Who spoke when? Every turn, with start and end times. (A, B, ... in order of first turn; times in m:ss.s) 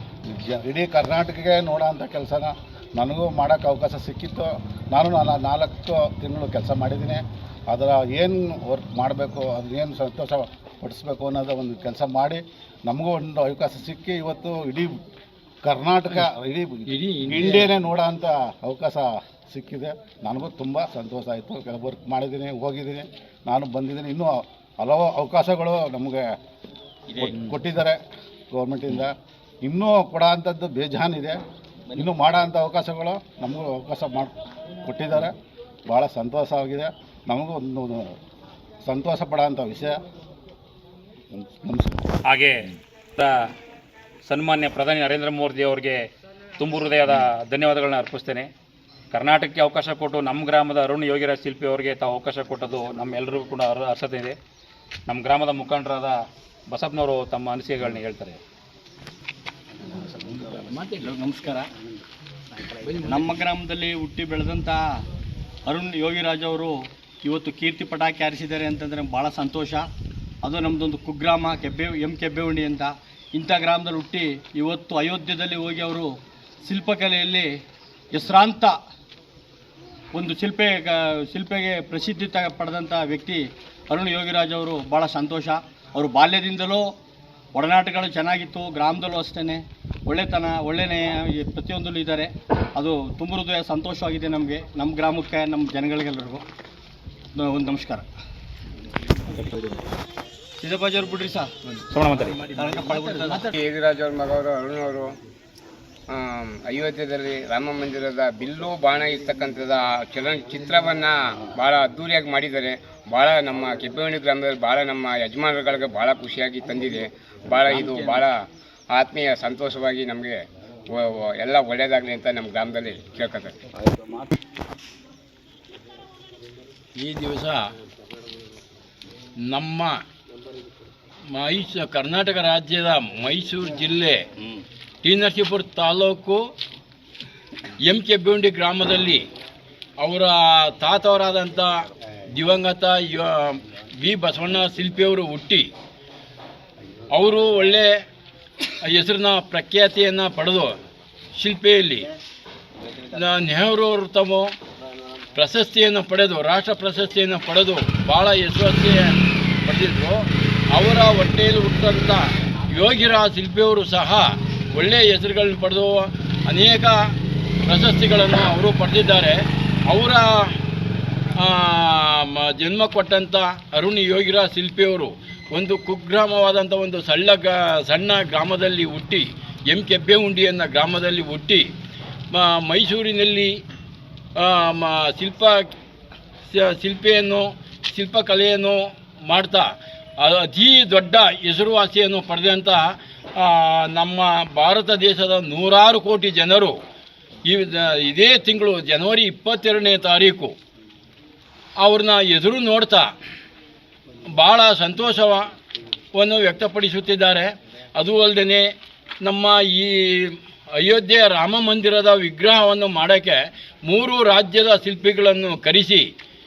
0:00.3-0:15.0 A
0:15.6-0:26.3 A
0:16.9-0:17.7 B
0:27.1-0:27.4 C
0:27.2-0:31.4 A
0:32.0-0:34.3 A
0:34.8-0:35.3 A
0:35.9-0:38.2 A
0:38.8-0:40.0 A
0:41.3-0:42.0 A
0:42.3-0:43.5 D
0:44.3-0:46.0 D
0:46.6-0:48.5 D
0:49.1-0:54.4 D
0:55.1-0:58.4 D
1:00.4-1:01.7 C
1:00.6-1:01.0 B
1:02.8-1:03.1 B
1:03.0-1:05.0 C
1:05.7-1:09.9 C
1:10.4-1:16.1 C
1:16.6-1:17.5 C
1:18.1-1:18.8 C
1:20.1-1:26.9 C
1:27.6-1:36.4 C
1:37.4-1:38.1 C
1:40.6-1:41.5 C
1:41.9-1:42.4 D
1:42.3-1:43.6 C
1:43.5-1:45.1 E
1:46.1-1:58.3 E
1:57.7-1:58.2 C
1:58.9-2:03.6 E
2:07.0-2:07.7 B
2:09.5-2:10.0 B
2:11.3-2:14.2 B
2:15.0-2:16.4 B
2:17.8-2:19.2 B
2:20.0-2:21.8 B
2:22.3-2:25.7 B
2:27.1-2:28.0 B
2:28.8-2:30.8 B
2:31.4-2:32.1 B
2:33.0-2:34.5 B
2:35.4-2:47.1 B
2:47.7-2:50.5 B
2:51.4-3:01.7 B
3:02.3-3:03.5 B
3:04.4-3:05.7 B
3:06.5-3:12.8 B
3:13.4-3:16.8 B
3:17.5-3:20.5 B
3:21.8-3:23.1 B
3:24.4-3:25.5 B
3:26.2-3:28.7 B
3:29.2-3:36.1 B